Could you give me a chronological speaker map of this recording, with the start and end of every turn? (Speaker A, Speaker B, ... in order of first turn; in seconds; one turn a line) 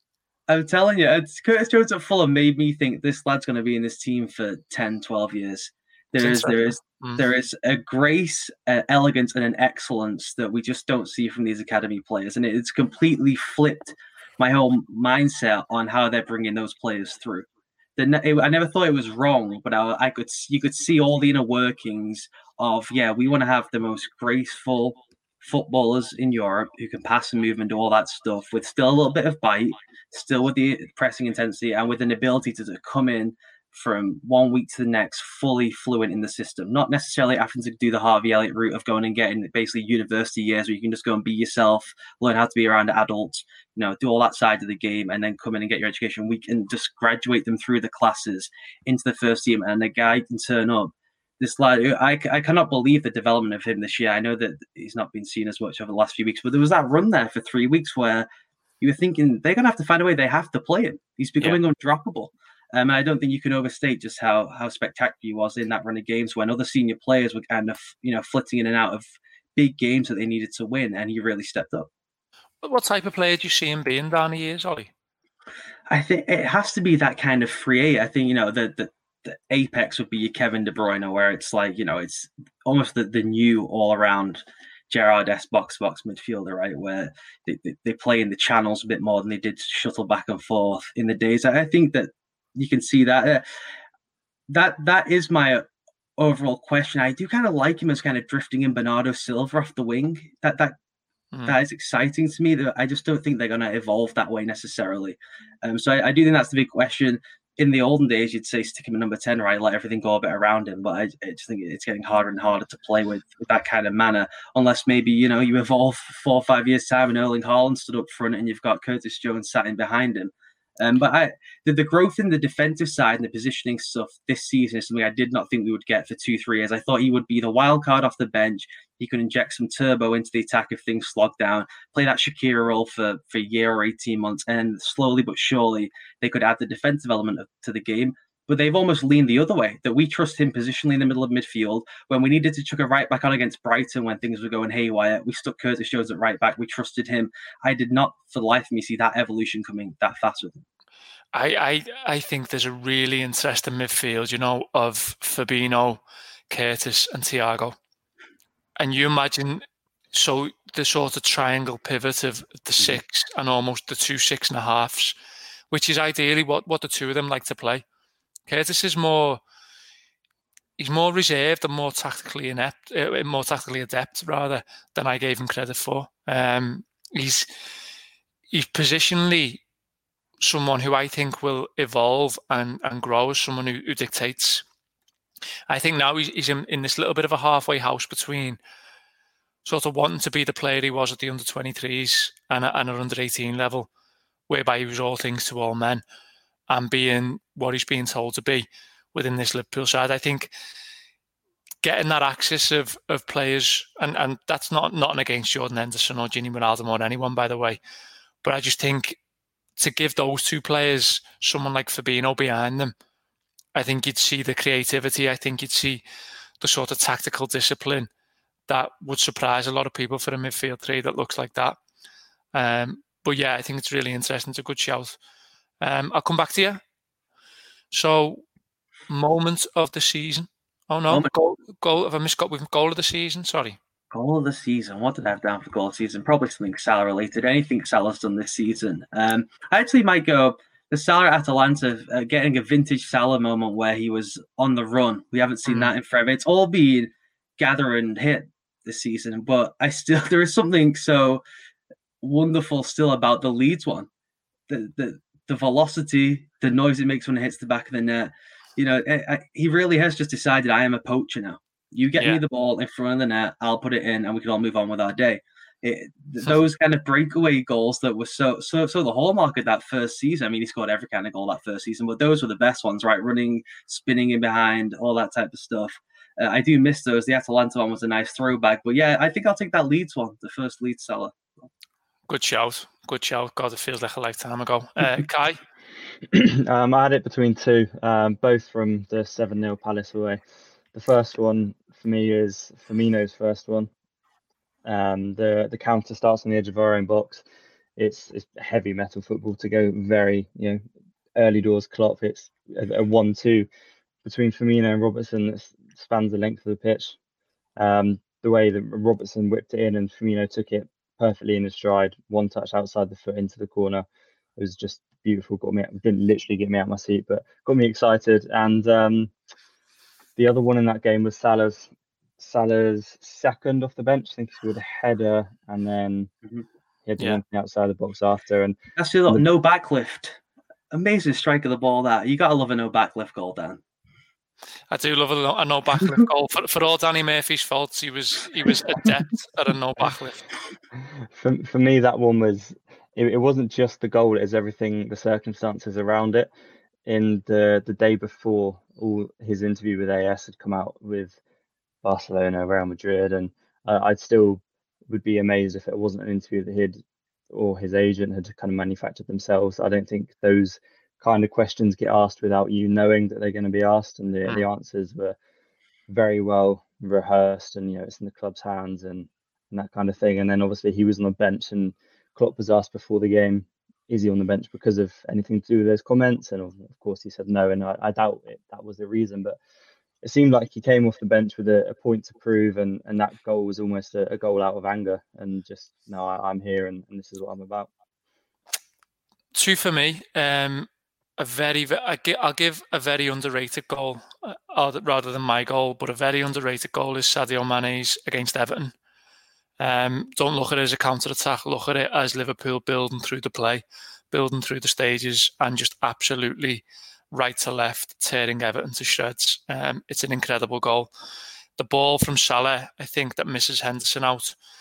Speaker A: 0.5-58.3
Speaker B: 6.2-7.2
Speaker A: 58.8-71.9
Speaker B: 72.6-74.9
Speaker A: 75.9-93.4
Speaker A: 94.5-95.7
Speaker A: 96.2-100.8
Speaker A: 101.5-150.6
Speaker B: 151.3-157.8
Speaker B: 158.8-165.2
Speaker B: 165.7-167.8
Speaker B: 168.5-169.4
Speaker B: 170.8-177.5
Speaker B: 178.5-179.6
Speaker B: 180.4-184.7
Speaker B: 185.7-188.6
Speaker B: 189.7-193.9
Speaker B: 194.5-196.0
Speaker B: 196.7-200.5
Speaker B: 201.8-207.8
Speaker B: 208.4-209.2
Speaker B: 209.8-212.9
Speaker B: 213.8-216.0
Speaker B: 216.6-218.1
Speaker B: 218.7-221.8
Speaker B: 222.5-225.2
Speaker B: 225.8-226.8
Speaker B: 227.9-228.4
Speaker B: 229.1-233.8
Speaker A: 234.1-251.4
Speaker B: 245.7-245.9
Speaker A: 252.2-254.1
Speaker A: 254.7-281.4
Speaker B: 262.2-262.4
Speaker B: 282.3-285.6
Speaker C: 286.3-290.4
Speaker C: 290.9-293.9
Speaker C: 294.9-297.4
Speaker C: 298.0-300.8
Speaker C: 301.4-303.7
Speaker C: 304.2-307.2
Speaker C: 307.8-314.1
Speaker C: 314.6-319.3
Speaker C: 320.4-326.3
Speaker C: 327.1-329.4
Speaker A: 329.0-330.4
Speaker A: 330.9-333.8
Speaker B: 334.9-340.4
Speaker C: 341.3-346.5
Speaker C: 347.1-351.4
Speaker C: 352.0-365.4
Speaker C: 366.1-379.6
Speaker C: 380.2-387.9
Speaker B: 389.6-398.9
Speaker B: 399.8-411.1
Speaker B: 411.8-414.6